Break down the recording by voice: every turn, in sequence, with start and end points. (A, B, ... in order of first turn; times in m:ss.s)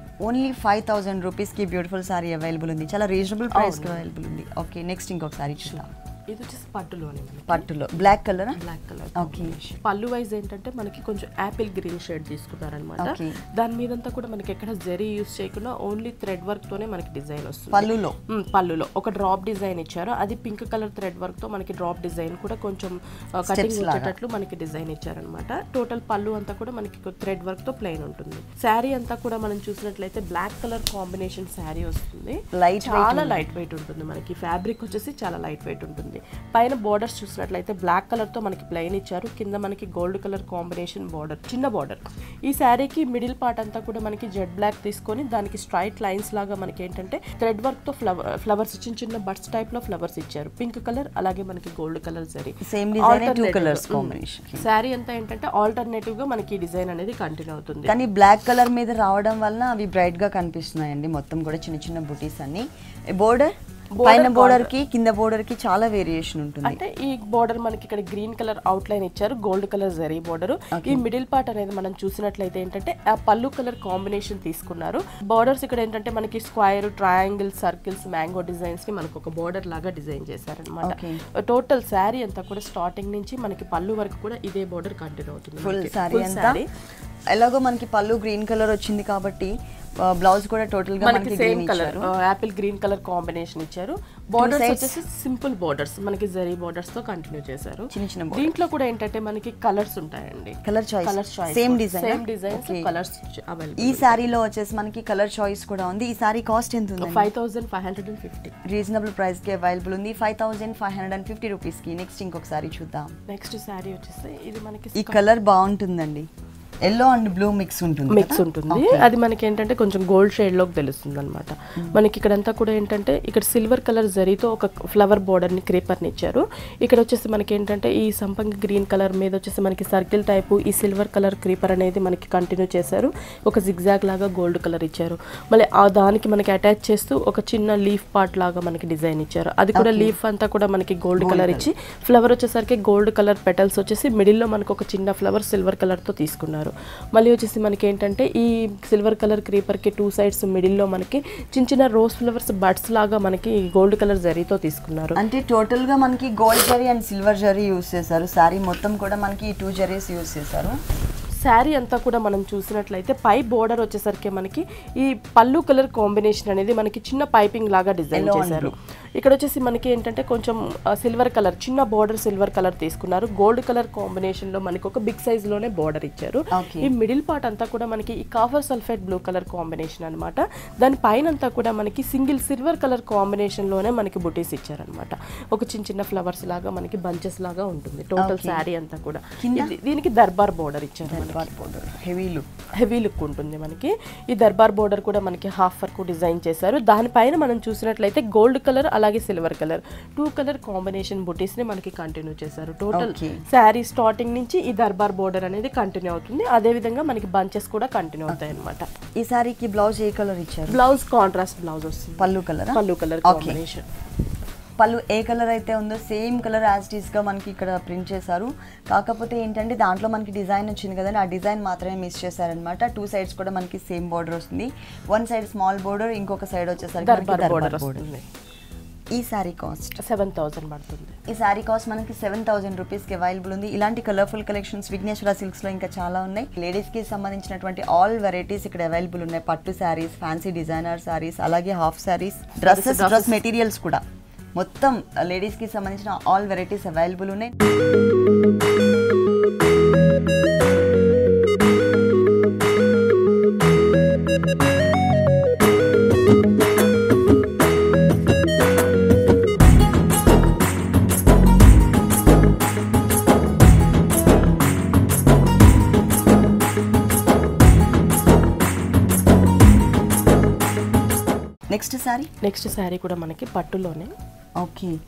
0:00.2-0:05.9 A
0:03.5-0:04.0 B
0:05.6-0:58.0 B
0:07.5-0:08.6 A
0:09.2-0:09.6 A
0:13.0-0:13.4 A
0:17.7-0:18.2 A
0:23.5-0:24.1 A
0:32.5-0:33.5 A
0:52.6-0:54.7 A
0:57.9-1:06.8 A
1:04.0-1:04.7 B
1:06.6-1:26.7 B
1:10.7-1:11.0 A
1:20.8-1:21.2 A
1:25.6-1:26.6 A
1:27.3-1:32.1 A
1:31.0-1:44.2 B
1:34.4-1:35.0 A
1:37.9-1:38.6 A
1:40.6-1:42.9 A
1:43.8-1:47.3 A
1:47.0-1:48.5 B
1:48.6-1:53.2 A
1:53.3-1:55.2 B
1:54.9-1:56.3 A
1:56.8-1:59.1 A
1:58.1-2:35.2 B
2:19.8-2:20.1 A
2:21.2-2:21.7 A
2:35.2-2:40.8 A
2:41.4-3:11.5 B
2:48.1-2:48.7 A
2:56.5-2:56.9 A
3:08.2-3:08.6 A
3:09.4-3:09.8 A
3:11.0-3:12.5 A
3:12.8-3:28.9 B
3:22.9-3:23.4 A
3:29.2-3:30.8 A
3:30.7-3:33.8 B
3:32.2-3:33.6 A
3:34.8-3:48.1 A
3:47.0-3:48.2 B
3:49.1-3:50.0 A
3:50.0-3:51.2 B
3:51.3-4:04.0 A
4:02.6-4:03.4 B
4:04.5-4:07.5 A
4:31.7-4:32.3 A
4:32.4-4:34.1 B
4:34.6-4:35.0 A